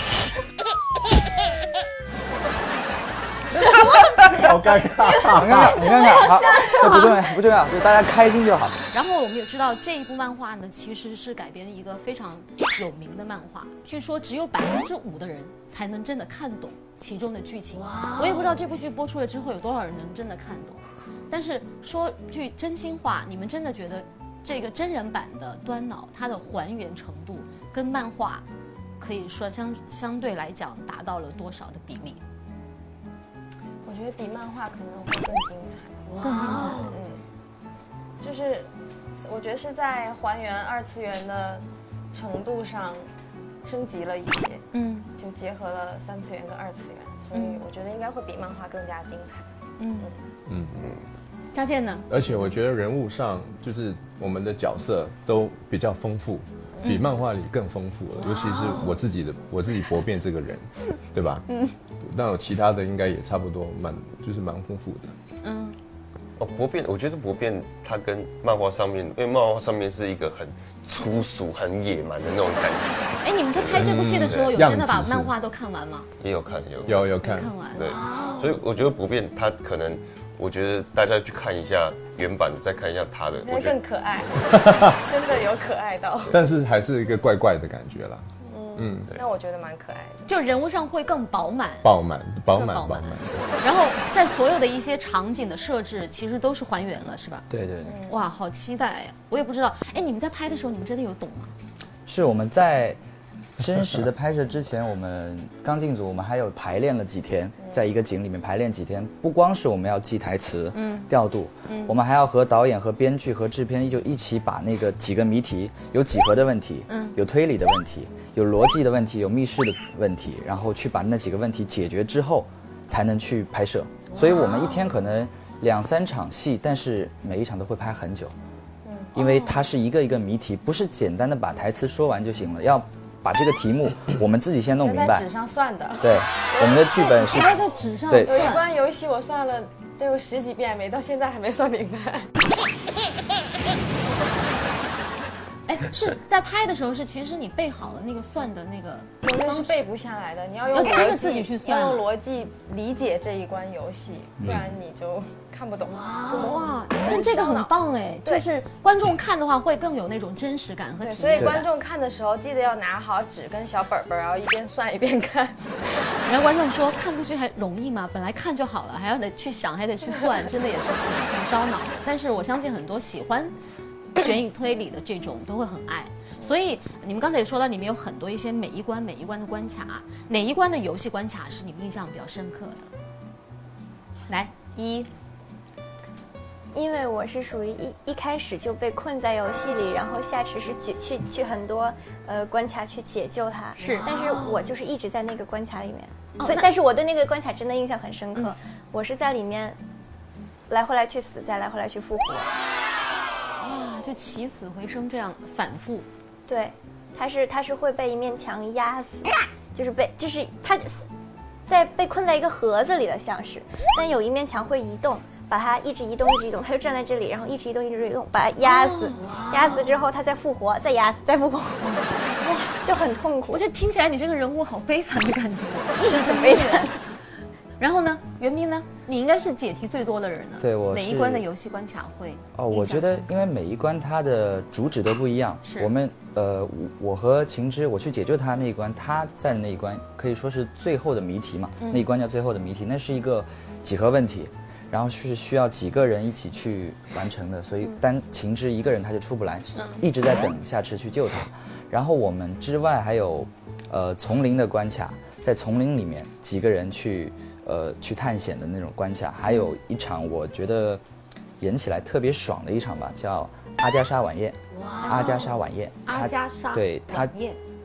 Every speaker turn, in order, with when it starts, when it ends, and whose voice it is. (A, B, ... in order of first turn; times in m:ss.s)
0:03.5-0:04.5 A
0:04.1-0:05.8 B
0:05.0-0:07.3 A
0:05.3-0:08.8 C
0:08.9-0:28.4 A
0:29.0-0:32.2 A
0:33.8-0:36.1 D
0:36.2-0:36.8 A
0:36.7-0:37.2 D
0:38.2-0:38.7 D
0:39.2-0:43.0 D
0:43.6-0:44.6 D
0:44.7-0:45.1 A
0:45.2-0:49.5 D
0:47.3-0:47.6 A
0:49.8-0:50.1 A
0:50.5-0:50.9 B
0:51.5-0:52.1 A
0:52.1-1:01.5 B
1:02.0-1:05.1 B
1:05.4-1:05.8 A
1:06.4-1:14.5 E
1:13.2-1:16.1 A
1:13.7-1:15.4 B
1:16.2-1:17.1 E
1:16.8-1:17.6 B
1:17.2-1:17.8 A
1:17.8-1:23.8 E
1:23.4-1:26.4 D
1:24.4-1:25.0 B
1:26.3-1:29.1 B
1:28.4-1:30.3 D
1:30.3-1:31.9 A
1:31.8-1:33.5 B
1:32.5-1:37.5 A
1:37.5-1:38.0 C
1:37.8-1:38.2 D
1:38.1-1:41.5 A
1:42.1-1:43.0 C
1:43.6-2:08.3 C
1:50.7-1:51.1 A
1:51.7-1:52.0 A
1:56.9-1:57.2 A
2:08.8-2:09.1 D
2:09.1-2:15.3 C
2:09.2-2:09.6 A
2:14.8-2:16.9 D
2:16.0-2:18.4 C
2:16.8-2:18.7 A
2:18.2-2:22.3 D
2:25.7-2:29.8 A
2:29.2-2:38.4 D
2:30.7-2:32.0 A
2:36.3-2:41.7 A
2:41.0-2:45.6 D
2:41.4-2:41.6 C
2:46.2-2:53.5 A
2:54.2-3:02.9 A
3:04.3-3:05.1 A
3:06.7-3:19.8 F
3:13.8-3:14.1 A
3:16.4-3:16.7 A
3:20.7-3:22.6 F
3:23.6-3:26.1 A
3:26.5-3:31.1 F
3:31.7-3:41.9 F
3:38.6-3:39.5 A
3:41.8-3:42.8 A
3:42.8-3:43.6 F
3:43.5-3:47.0 A
3:46.1-3:46.9 F
3:47.8-3:53.3 A
3:50.6-3:51.5 C
3:52.6-4:21.0 C
3:55.6-3:55.9 A
4:01.8-4:02.1 A
4:09.8-4:10.1 A
4:21.6-4:27.4 C
4:25.0-4:27.6 A